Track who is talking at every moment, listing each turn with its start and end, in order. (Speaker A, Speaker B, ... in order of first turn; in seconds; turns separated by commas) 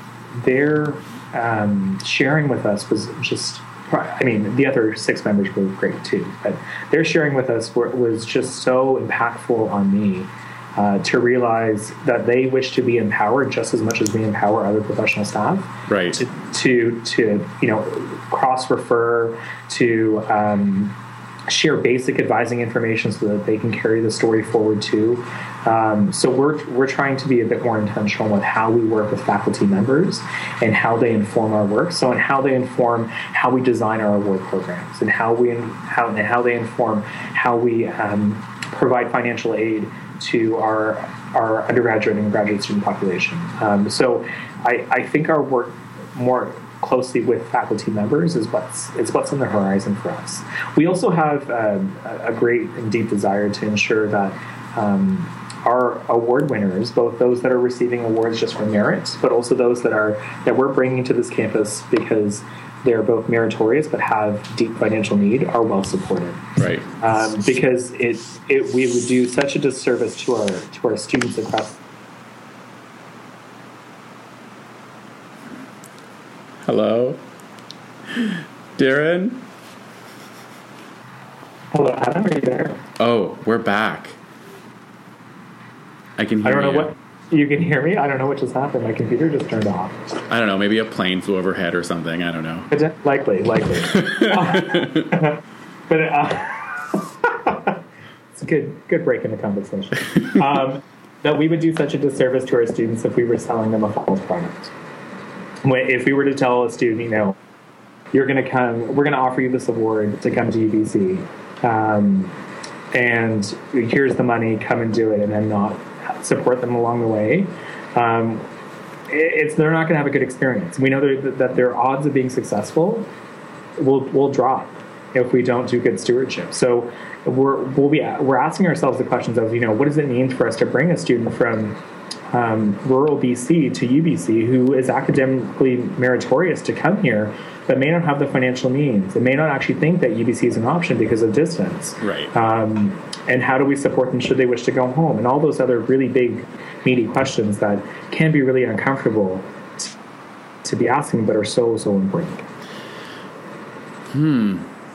Speaker A: 0.3-20.9, Speaker B: 15.9-16.2, Speaker A: 21.5-71.8, Speaker B: 66.6-67.0, Speaker B: 76.6-77.2, Speaker B: 78.1-79.4, Speaker A: 81.7-82.8, Speaker B: 83.0-84.2, Speaker B: 86.2-86.9, Speaker A: 86.4-90.0, Speaker B: 90.3-92.7, Speaker A: 92.7-97.8, Speaker B: 93.9-95.0, Speaker A: 98.3-104.7, Speaker A: 105.6-107.4, Speaker A: 108.1-112.3, Speaker A: 112.9-118.5, Speaker A: 119.1-123.1, Speaker A: 123.8-131.8, Speaker A: 132.3-149.9, Speaker B: 142.0-142.3, Speaker A: 150.6-152.4, Speaker B: 154.1-154.7